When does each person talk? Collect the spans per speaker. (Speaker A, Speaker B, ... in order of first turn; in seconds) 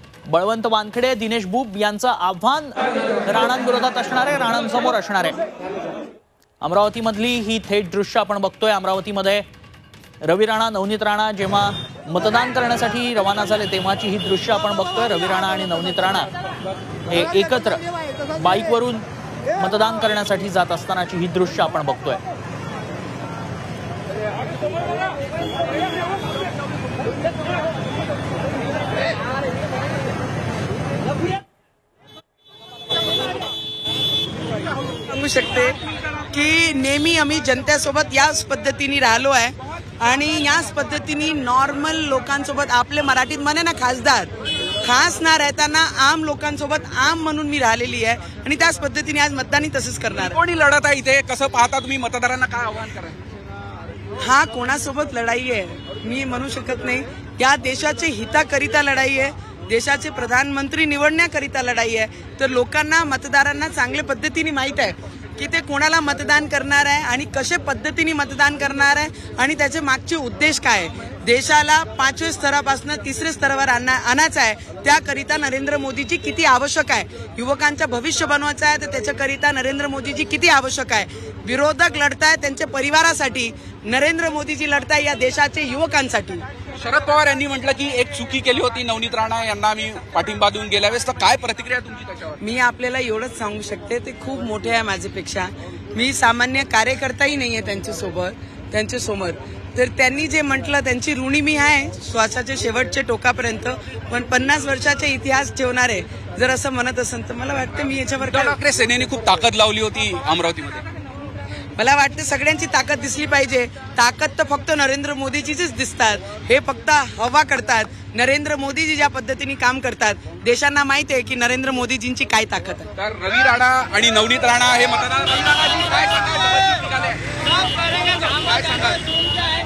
Speaker A: 0.3-5.4, 6.6-9.4, 10.2-16.3, 17.1-22.2
Speaker B: 35.1-35.8, 36.3-44.3, 44.8-50.4, 54.2-86.4, 92.4-108.6, 111.8-122.9
Speaker C: 50.2-53.2, 86.8-92.4, 108.2-110.8, 123.0-127.2, 128.1-129.0